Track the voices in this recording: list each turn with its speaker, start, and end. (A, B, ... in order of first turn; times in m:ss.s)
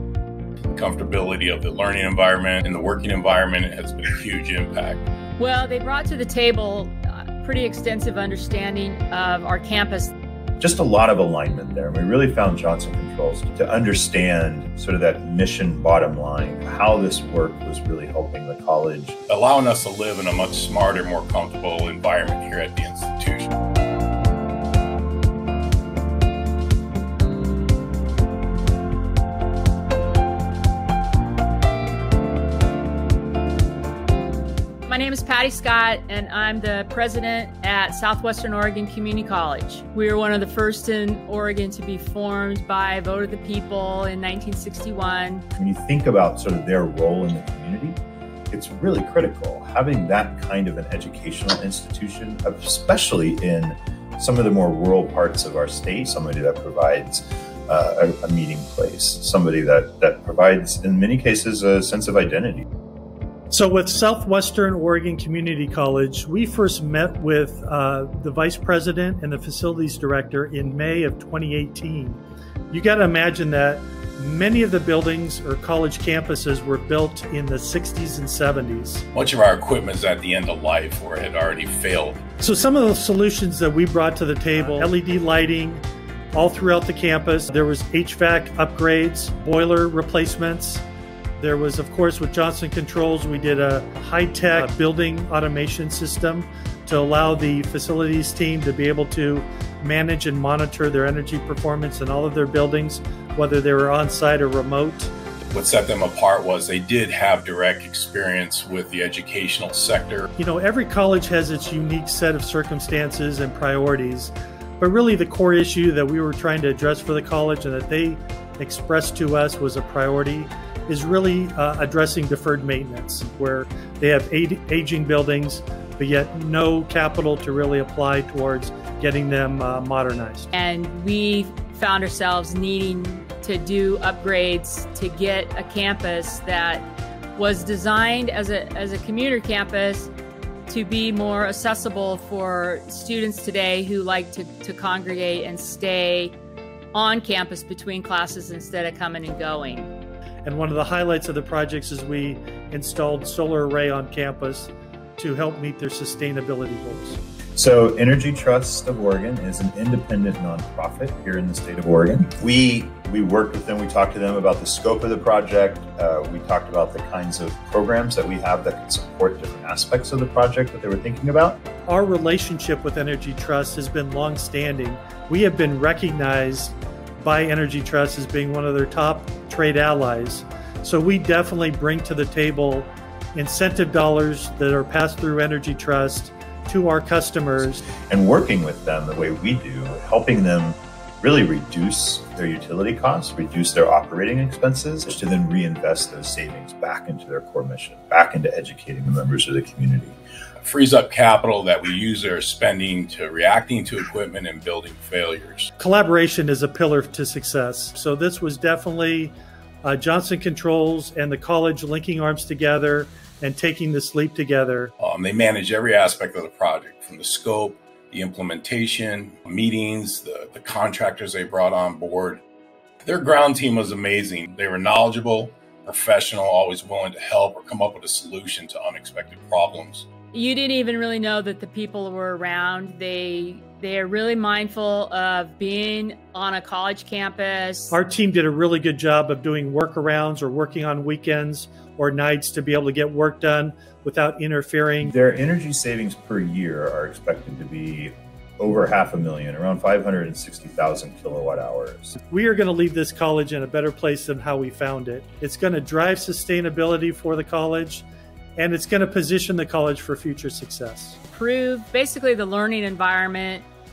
0:00.7-0:05.0 A
0:05.4-0:10.1 B
0:10.6-0:19.2 C
0:19.3-0:23.5 A
0:34.8-0:45.4 B
0:45.6-0:48.0 C
0:48.5-1:02.6 C
1:03.5-1:19.0 D
1:19.1-1:22.2 A
1:22.4-1:30.8 D
1:31.4-1:45.1 D
1:45.5-1:50.3 A
1:50.4-2:10.5 D
2:10.5-2:20.1 B
2:20.7-2:26.3 B
2:26.9-2:29.9 B
2:30.4-2:37.2 D
2:37.6-2:51.6 C
2:51.9-3:07.8 D
3:08.0-3:20.2 C
3:20.6-3:25.7 A
3:25.8-3:34.9 D
3:35.0-3:42.4 A
3:43.0-3:50.1 A
3:50.3-3:58.0 B
3:57.9-4:05.2 D
4:05.0-4:12.1 C
4:12.2-4:18.0 D
4:18.6-4:21.2 D
4:21.3-4:23.6 B